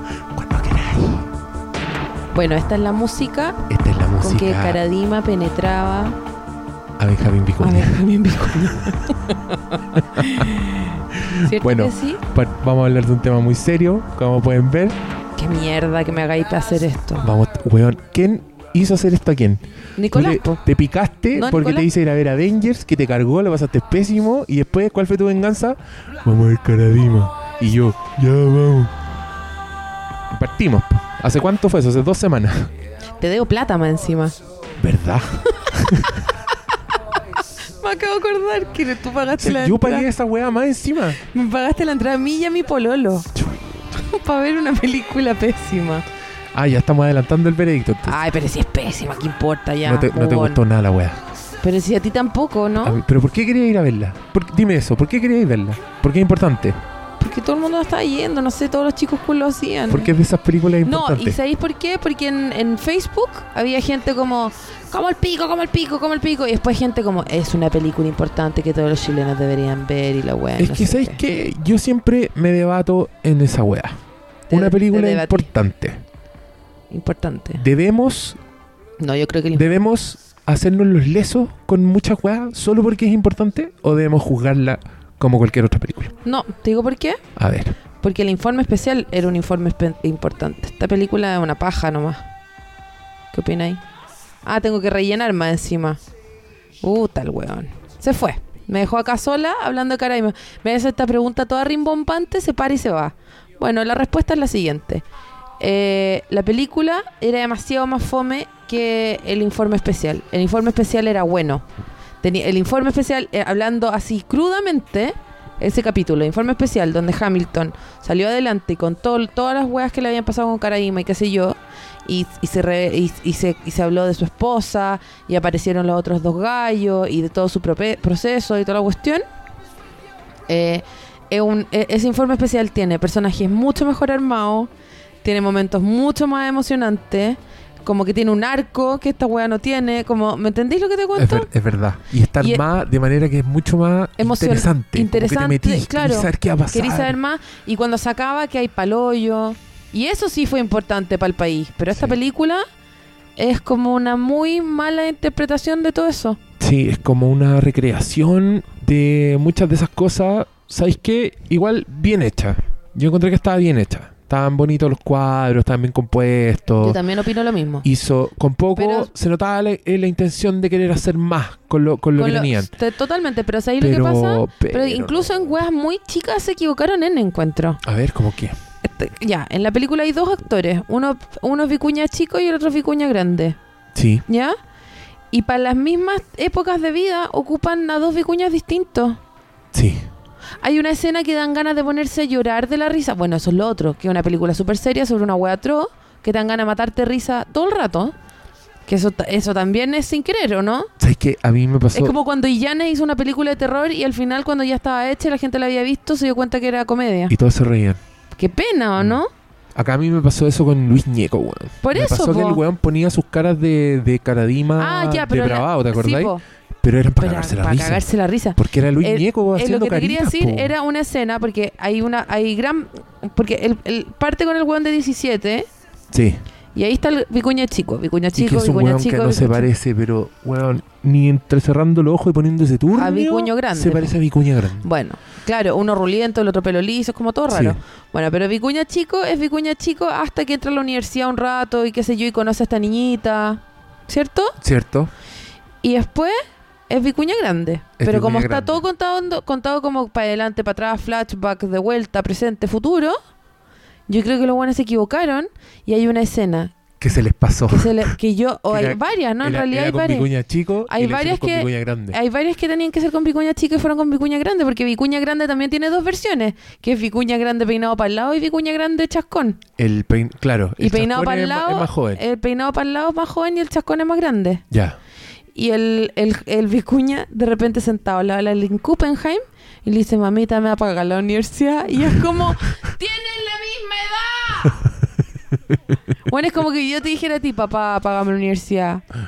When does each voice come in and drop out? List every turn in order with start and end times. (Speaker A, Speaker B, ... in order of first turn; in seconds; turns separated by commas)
Speaker A: 0.3-1.3, Speaker B: 2.3-3.6, Speaker A: 3.7-4.8, Speaker B: 4.2-6.2, Speaker A: 7.0-8.0, Speaker B: 7.6-12.2, Speaker A: 10.0-10.4, Speaker A: 11.3-15.0, Speaker B: 15.3-17.2, Speaker A: 17.2-28.9, Speaker B: 20.0-20.6, Speaker B: 21.3-21.9, Speaker A: 30.3-32.7, Speaker B: 33.2-34.4, Speaker A: 34.8-36.2, Speaker B: 37.8-40.1, Speaker A: 39.4-41.2, Speaker B: 41.2-43.3, Speaker B: 43.9-46.0, Speaker A: 46.5-48.2, Speaker B: 48.1-50.6, Speaker A: 49.8-51.2, Speaker B: 51.6-53.0, Speaker A: 52.8-56.8, Speaker B: 57.2-60.1, Speaker A: 59.9-61.4, Speaker B: 60.8-71.2, Speaker A: 70.6-74.0, Speaker B: 74.5-75.5, Speaker A: 74.5-76.0, Speaker B: 76.9-77.6, Speaker A: 77.6-78.4, Speaker B: 79.0-79.6, Speaker A: 79.5-86.1, Speaker B: 86.2-87.2, Speaker A: 87.3-87.8, Speaker B: 88.0-92.2, Speaker B: 93.3-93.8, Speaker B: 94.4-96.0, Speaker B: 96.8-105.0, Speaker B: 105.6-111.6, Speaker B: 112.2-129.2, Speaker B: 130.5-134.7, Speaker B: 135.2-141.5, Speaker A: 141.2-147.2, Speaker B: 142.4-142.6, Speaker B: 144.2-152.6, Speaker B: 153.4-156.4, Speaker A: 156.6-167.0, Speaker B: 166.8-167.8, Speaker A: 167.8-172.7, Speaker B: 168.8-169.1, Speaker B: 172.2-177.8, Speaker A: 173.8-175.3, Speaker A: 177.8-178.6, Speaker B: 178.8-183.6, Speaker A: 183.9-184.2, Speaker B: 184.3-184.6, Speaker B: 185.3-189.2, Speaker A: 189.7-190.1, Speaker B: 190.6-198.1, Speaker B: 198.9-200.9, Speaker A: 201.0-202.1, Speaker B: 201.9-207.3, Speaker A: 207.3-208.0, Speaker B: 208.4-209.3, Speaker A: 209.7-220.7, Speaker B: 211.8-212.6, Speaker B: 214.8-216.4, Speaker B: 217.2-225.7, Speaker A: 226.1-226.4, Speaker B: 226.7-229.7, Speaker A: 228.3-234.8, Speaker B: 232.9-234.2, Speaker B: 234.8-244.6, Speaker A: 237.5-237.8, Speaker A: 244.6-245.1, Speaker B: 245.8-246.4, Speaker B: 246.9-253.2, Speaker A: 248.0-248.8, Speaker B: 254.1-256.8, Speaker A: 257.0-258.1, Speaker B: 257.7-260.3, Speaker A: 258.7-262.2, Speaker B: 260.9-269.6, Speaker A: 269.8-272.2, Speaker B: 270.8-274.6, Speaker A: 274.7-275.0, Speaker B: 275.5-284.9, Speaker B: 286.2-289.0